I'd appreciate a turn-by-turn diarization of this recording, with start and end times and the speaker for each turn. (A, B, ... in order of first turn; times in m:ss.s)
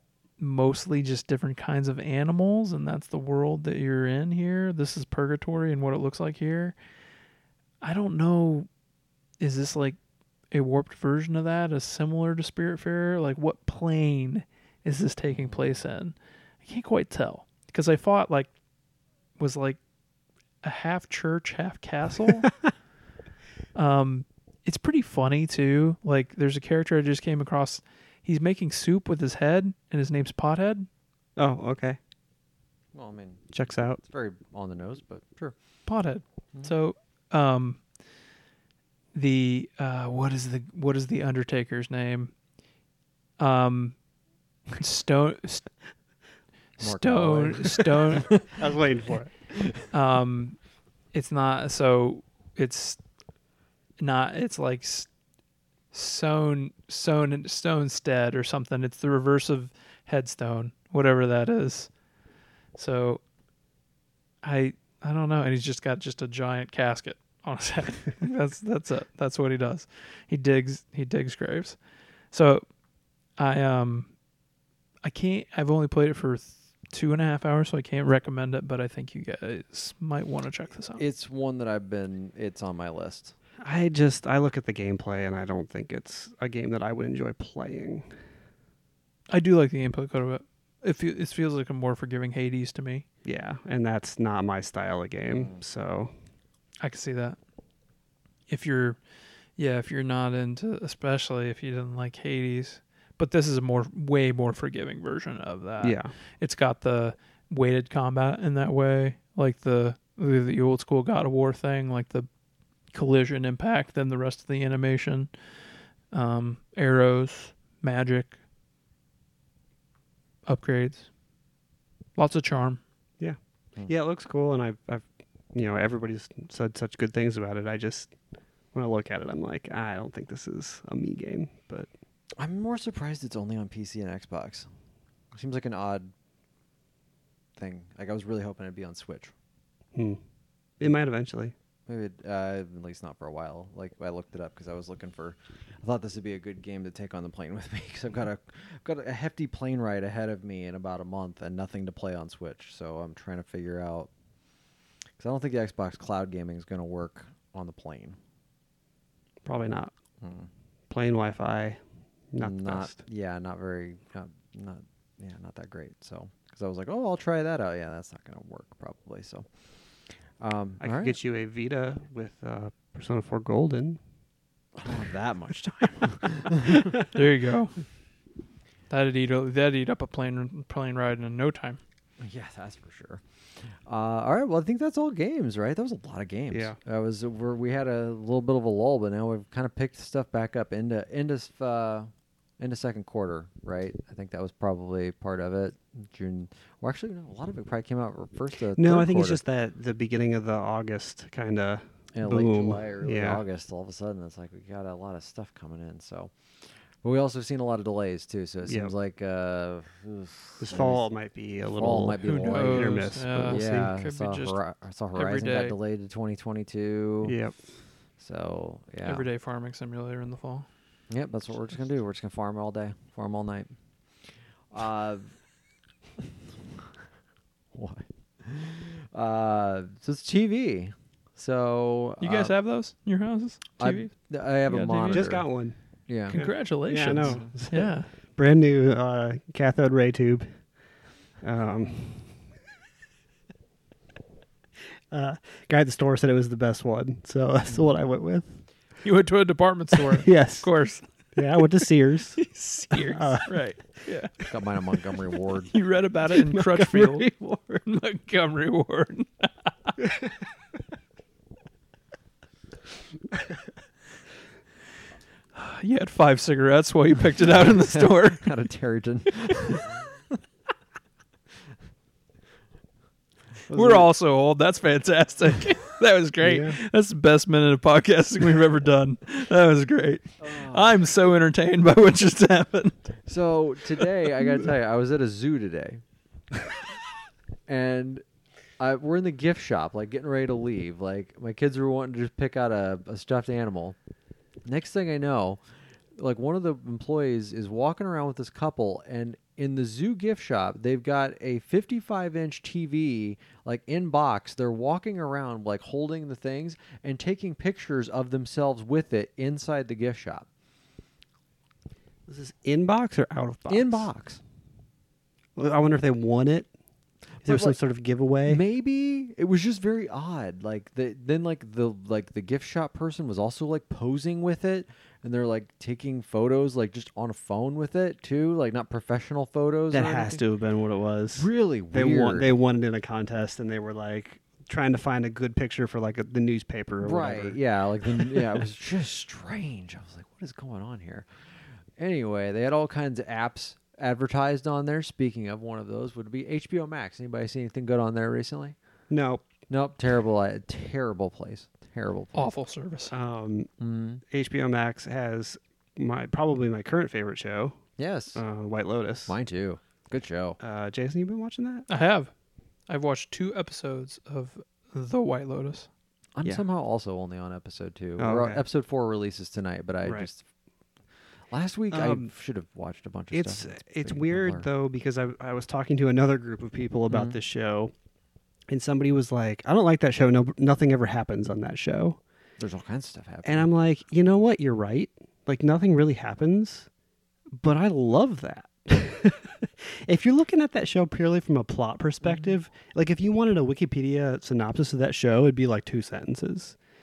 0:00.4-0:06.8 A
0:07.8-0:08.7 A
0:09.4-0:10.0 A
0:10.5-0:18.5 A
0:15.3-0:15.8 B
0:19.4-0:19.8 A
0:20.6-0:22.5 A
0:23.8-0:30.9 A
0:31.4-0:32.0 C
0:32.9-0:35.6 B
0:33.5-0:34.0 C
0:35.9-0:37.8 A
0:39.1-0:42.3 A
0:43.4-0:44.0 A
0:44.8-0:45.7 A
0:46.8-0:48.4 A
0:46.8-0:48.5 B
0:48.4-0:49.3 C
0:49.9-0:50.6 A
0:51.1-0:53.0 A
0:54.0-0:55.1 A
0:55.9-1:01.9 A
1:02.8-1:03.2 A
1:04.4-1:11.8 A
1:12.3-1:12.7 A
1:13.4-1:14.1 A
1:15.0-1:21.0 A
1:21.0-1:23.4 B
1:23.6-1:28.1 C
1:29.3-1:33.0 A
1:33.2-1:36.1 C
1:35.3-1:35.6 B
1:36.8-1:37.4 A
1:38.5-1:39.0 A
1:39.6-1:52.3 A
1:45.8-1:46.1 C
1:52.9-1:55.3 A
1:56.1-1:58.4 A
2:00.5-2:01.1 A
2:02.2-2:02.8 A
2:03.2-2:08.1 C
2:08.7-2:11.9 C
2:12.4-2:14.7 B
2:15.3-2:16.1 B
2:17.6-2:19.3 B
2:20.0-2:20.2 C
2:20.8-2:21.5 C
2:21.9-2:34.1 B
2:35.2-2:38.2 B
2:39.4-2:39.9 C
2:40.2-2:40.5 B
2:40.9-2:41.8 C
2:42.3-2:43.0 C
2:42.4-2:49.5 B
2:50.4-2:51.2 B
2:50.8-2:54.0 C
2:54.8-2:57.0 B
2:56.7-2:57.8 A
2:58.9-3:01.8 A
3:02.2-3:19.4 B
3:06.5-3:06.8 C
3:18.8-3:23.4 C
3:22.1-3:31.0 B
3:28.7-3:28.9 C
3:30.6-3:33.9 C
3:31.7-3:37.4 B
3:32.2-3:34.6 A
3:35.2-3:35.8 A
3:37.2-3:37.6 C
3:38.2-3:39.3 B
3:39.0-3:40.7 A
3:41.1-3:43.7 B
3:44.7-3:45.4 B
3:47.7-3:52.5 B
3:52.2-3:54.1 A
3:53.8-3:55.5 B
3:54.7-3:55.3 A
3:54.7-3:55.8 C
3:56.1-3:56.4 B
3:56.3-3:58.1 A
3:56.3-4:00.5 C
3:57.0-3:57.5 B
4:01.4-4:02.3 C
4:05.1-4:08.6 C
4:09.0-4:11.1 A
4:10.0-4:10.7 C
4:11.4-4:13.6 C
4:12.4-4:14.4 A
4:14.4-4:15.7 B
4:15.7-4:20.0 A
4:16.4-4:17.3 C
4:25.6-4:28.5 A
4:27.6-4:29.9 B
4:29.5-4:29.8 A
4:33.7-4:34.1 C
4:33.7-4:43.1 A
4:36.4-4:36.8 C
4:40.4-4:41.0 B
4:43.3-4:46.0 B
4:47.7-4:48.2 B
4:48.8-4:54.0 B
4:54.6-4:55.6 B
4:56.2-5:10.5 B
5:12.3-5:14.1 C
5:13.7-5:14.4 B
5:15.6-5:16.7 C
5:17.4-5:17.8 B
5:17.4-5:18.6 C
5:18.5-5:30.4 B
5:29.9-5:37.6 C
5:31.4-5:32.6 B
5:37.0-5:41.3 B
5:42.0-5:48.8 B
5:49.1-5:49.5 C
5:49.7-5:52.5 B
5:52.4-5:53.1 A
5:53.1-5:53.7 C
5:53.8-5:54.2 B
5:54.3-5:57.8 C
5:58.0-5:58.4 B
5:58.4-5:59.4 C
5:59.3-6:00.6 B
6:00.6-6:01.9 C
6:01.9-6:02.3 A
6:02.9-6:05.9 A
6:06.4-6:10.4 B
6:08.2-6:08.6 C
6:10.0-6:10.3 C
6:11.5-6:14.7 B
6:11.9-6:12.3 C
6:13.3-6:17.9 C
6:17.1-6:17.4 B
6:18.7-6:22.2 C
6:22.6-6:23.7 B
6:23.4-6:26.9 C
6:27.5-6:36.8 C